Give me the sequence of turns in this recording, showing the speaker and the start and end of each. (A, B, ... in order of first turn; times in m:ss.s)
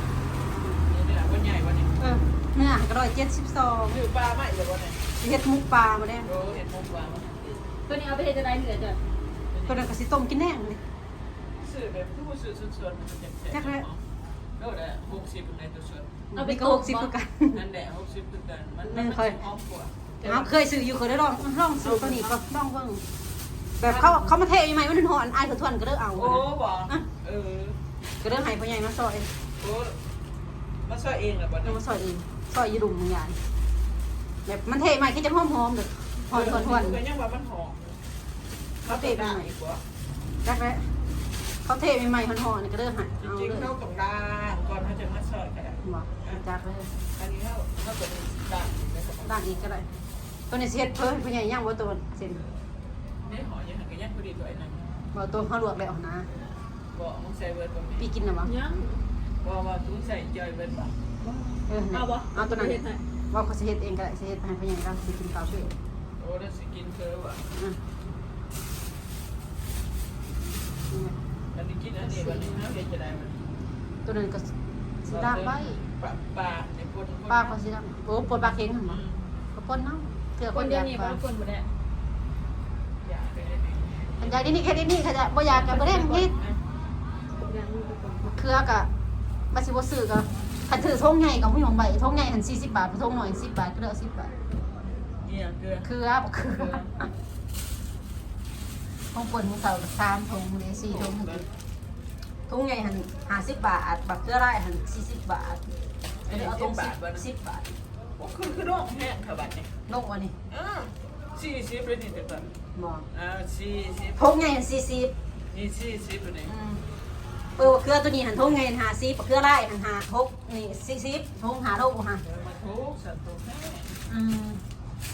0:00.8-0:01.9 A
0:02.0-0:04.0 B
0:03.9-0:05.0 A
0:05.2-0:06.3 B
0:06.2-0:07.7 A
0:07.9-0:09.0 C
0:09.5-0:09.9 A
0:09.7-0:10.8 B
0:11.6-0:14.0 A
0:13.5-0:13.8 B
0:14.6-0:16.2 A
0:16.3-0:17.6 B
0:16.3-0:17.1 C
0:17.5-0:19.9 A
0:18.8-0:19.4 B
0:20.2-0:20.5 C
0:20.2-0:23.0 B
0:22.1-0:22.3 C
0:23.8-0:27.0 B
0:23.8-0:24.3 C
0:26.2-0:27.8 A
0:28.2-0:29.3 B
0:29.6-0:30.0 A
0:30.8-0:31.8 A
0:31.6-0:33.4 B
0:34.4-0:37.0 B
0:36.3-0:37.8 A
0:38.8-0:39.8 A
0:38.8-0:39.5 B
0:40.4-0:40.9 B
0:41.6-0:43.7 B
0:43.2-0:46.4 A
0:45.8-0:46.9 B
0:47.2-0:49.3 A
0:49.2-0:49.8 B
0:50.5-0:52.4 B
0:53.2-0:54.8 A
0:55.1-0:56.3 B
0:56.9-0:58.1 A
0:58.0-0:58.5 B
0:58.4-0:59.0 C
0:59.4-1:00.9 A
1:01.2-1:03.0 C
1:01.7-1:05.7 B
1:06.2-1:07.4 A
1:11.5-1:13.4 A
1:14.0-1:14.5 B
1:15.0-1:15.8 B
1:15.1-1:17.6 A
1:17.3-1:19.0 B
1:18.8-1:19.2 A
1:19.5-1:21.2 B
1:20.5-1:21.7 C
1:23.0-1:24.4 A
1:24.2-1:26.3 B
1:25.4-1:26.6 A
1:27.4-1:28.3 C
1:28.2-1:28.9 B
1:29.5-1:34.3 B
1:35.2-1:35.9 A
1:35.8-1:36.8 B
1:36.5-1:36.9 A
1:39.1-1:41.4 B
1:40.8-1:41.5 A
1:42.5-1:45.6 B
1:46.2-1:47.2 A
1:46.3-1:47.7 B
1:48.2-1:49.7 A
1:49.9-1:50.3 B
1:50.5-1:52.5 A
1:52.8-1:53.0 B
1:53.1-1:54.4 A
1:54.2-1:55.1 B
1:55.5-1:56.5 A
1:56.5-1:56.8 B
1:57.6-2:02.2 B
2:02.2-2:04.0 A
2:04.1-2:04.6 B